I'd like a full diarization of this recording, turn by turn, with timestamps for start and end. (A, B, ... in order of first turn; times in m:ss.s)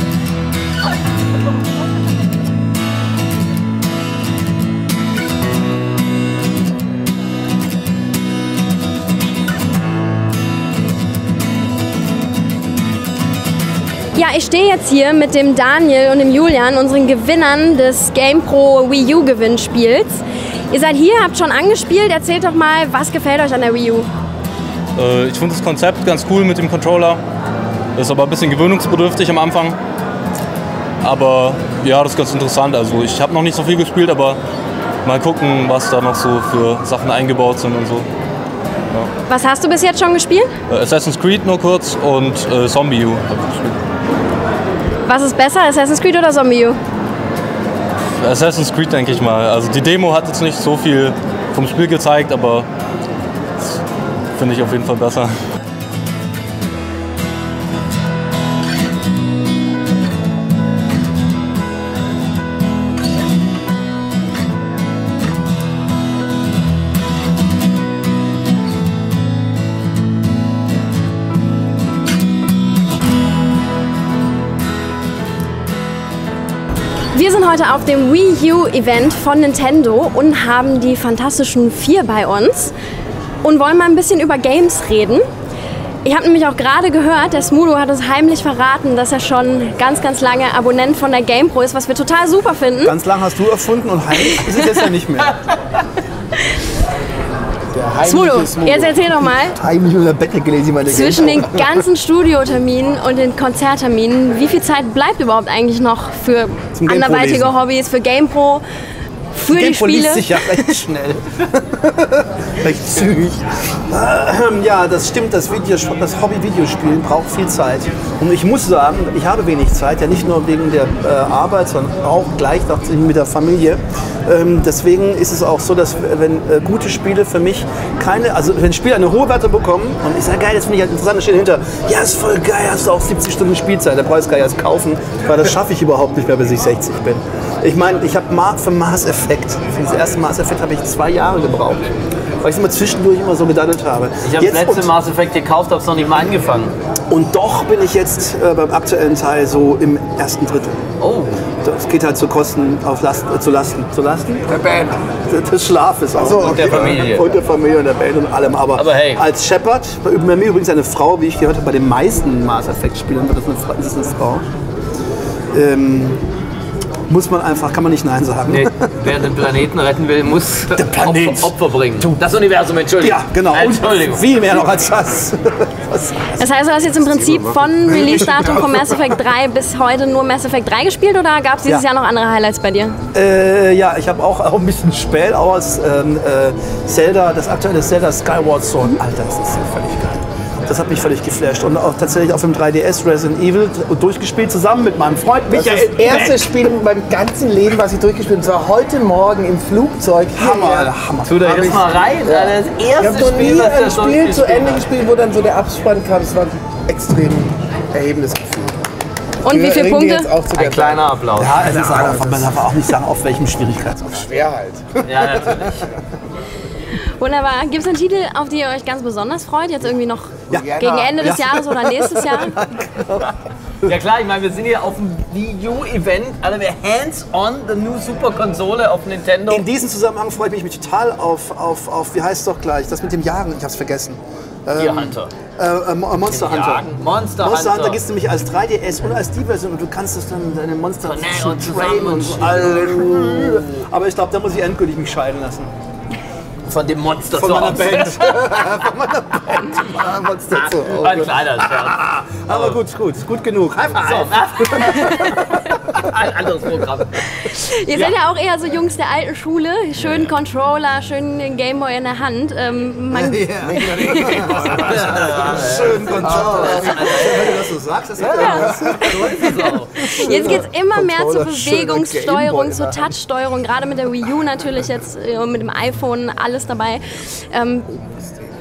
0:14.1-0:24.1 A
0:25.0-0:27.2 B
0:28.0-0:29.8 B
0:31.0-0:34.4 B
0:35.0-0:38.1 B
0:39.3-0:40.5 A
0:40.7-0:43.8 B
0:45.1-0:46.8 A
0:48.2-0:52.7 B
0:54.4-0:55.3 B
1:17.1-1:22.7 A
1:23.4-1:25.2 A
1:26.0-1:33.0 A
1:32.8-1:35.4 C
1:34.2-1:34.6 A
1:37.7-1:39.3 D
1:38.0-1:39.6 A
1:39.5-1:41.8 C
1:40.9-1:48.6 A
1:46.7-1:47.5 C
1:49.3-1:50.8 A
1:49.5-2:21.9 C
2:22.4-2:24.9 C
2:24.2-2:26.7 E
2:27.1-2:30.8 C
2:31.0-2:31.4 E
2:31.6-2:34.5 C
2:34.5-2:35.0 D
2:35.3-2:44.4 C
2:36.1-2:37.0 D
2:36.4-2:37.3 E
2:38.8-2:39.3 E
2:45.5-2:46.2 C
2:47.1-2:48.9 C
2:48.5-2:54.3 E
2:50.7-2:52.1 C
2:53.0-2:56.5 C
2:56.4-3:03.0 A
2:57.3-2:58.7 D
2:57.9-2:58.7 C
3:03.1-3:16.6 C
3:15.5-3:20.9 D
3:20.4-3:22.0 C
3:21.2-3:24.9 E
3:21.5-3:28.8 D
3:29.4-3:30.3 A
3:29.4-3:32.6 D
3:30.5-3:31.6 E
3:31.4-3:34.4 C
3:34.2-3:35.6 D
3:35.0-3:35.9 E
3:37.2-3:42.6 A
3:40.5-3:41.5 D
3:41.2-3:43.3 C
3:43.8-3:49.7 E
3:49.5-3:56.9 C
3:54.8-3:55.3 E
3:56.2-3:58.0 E
3:57.4-4:05.7 C
4:01.0-4:03.6 E
4:06.7-4:08.6 E
4:07.3-4:10.0 C
4:08.5-4:08.9 D
4:09.8-4:11.3 D
4:10.5-4:12.8 E
4:10.8-4:15.3 C
4:13.9-4:18.2 E
4:17.4-4:24.8 A
4:20.0-4:20.3 E
4:23.3-4:29.5 C
4:23.5-4:27.6 D
4:24.6-4:27.7 E
4:28.2-4:32.8 D
4:28.3-4:29.4 A
4:28.5-4:30.0 E
4:30.1-4:37.9 A
4:30.3-4:30.6 C
4:31.8-4:32.9 C
4:38.0-4:38.4 D